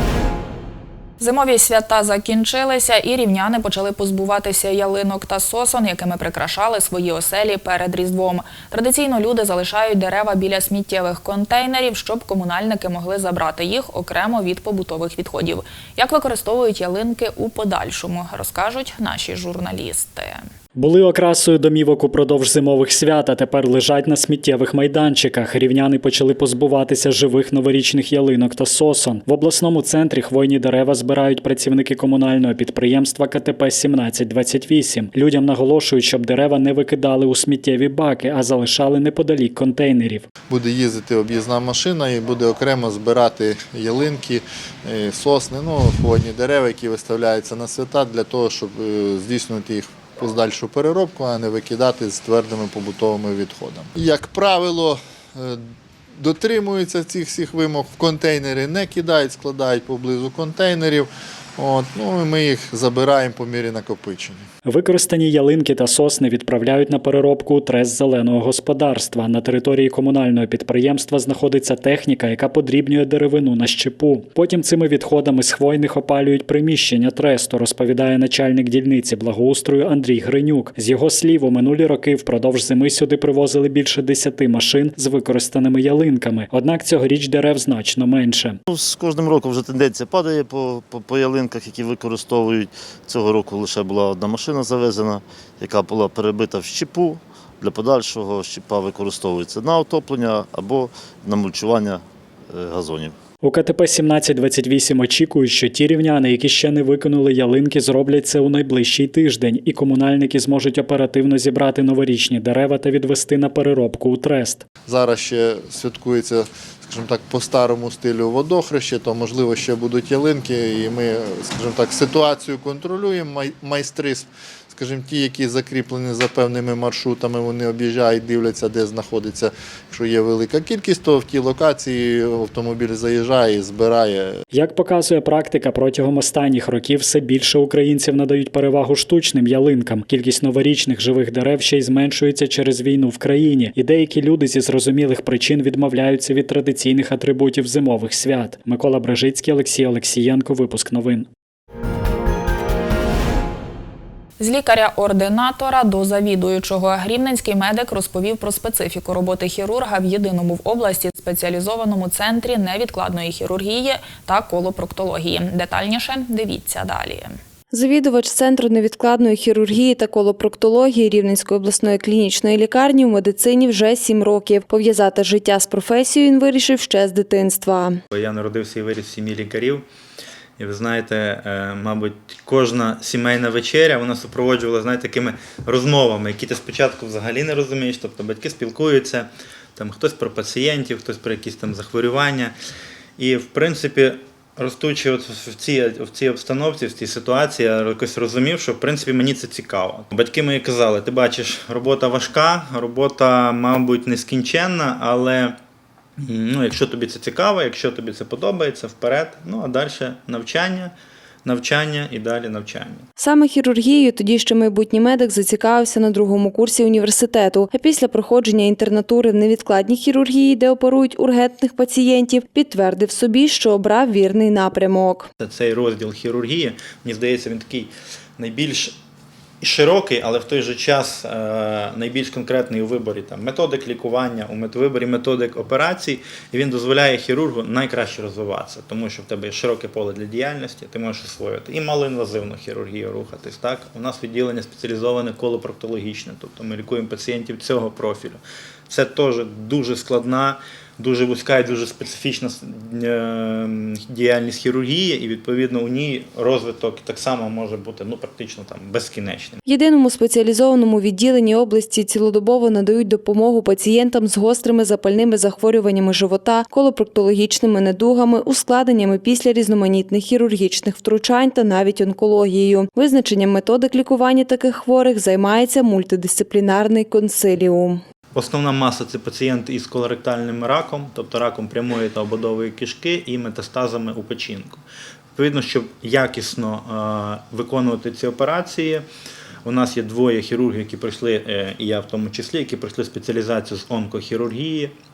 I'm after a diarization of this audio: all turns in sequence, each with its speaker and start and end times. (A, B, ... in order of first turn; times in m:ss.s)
0:01.2-0:20.4 A
0:20.7-0:40.3 B
0:40.5-0:55.6 C
0:56.2-1:04.5 C
1:04.6-1:28.6 B
1:28.7-1:43.1 D
1:43.4-1:54.6 B
1:54.8-2:14.4 C
2:14.5-2:31.3 B
2:34.4-2:47.4 A
2:47.7-2:58.0 E
2:58.1-2:59.8 F
3:00.6-3:12.5 F
3:13.2-3:25.6 F
3:26.2-3:30.9 F
3:31.4-3:33.0 F
3:33.2-3:45.3 E
3:45.4-3:49.0 F
3:49.6-4:19.6 F
4:19.6-4:38.0 E
4:38.3-4:44.8 F
4:45.4-4:49.0 F
4:49.6-4:54.9 F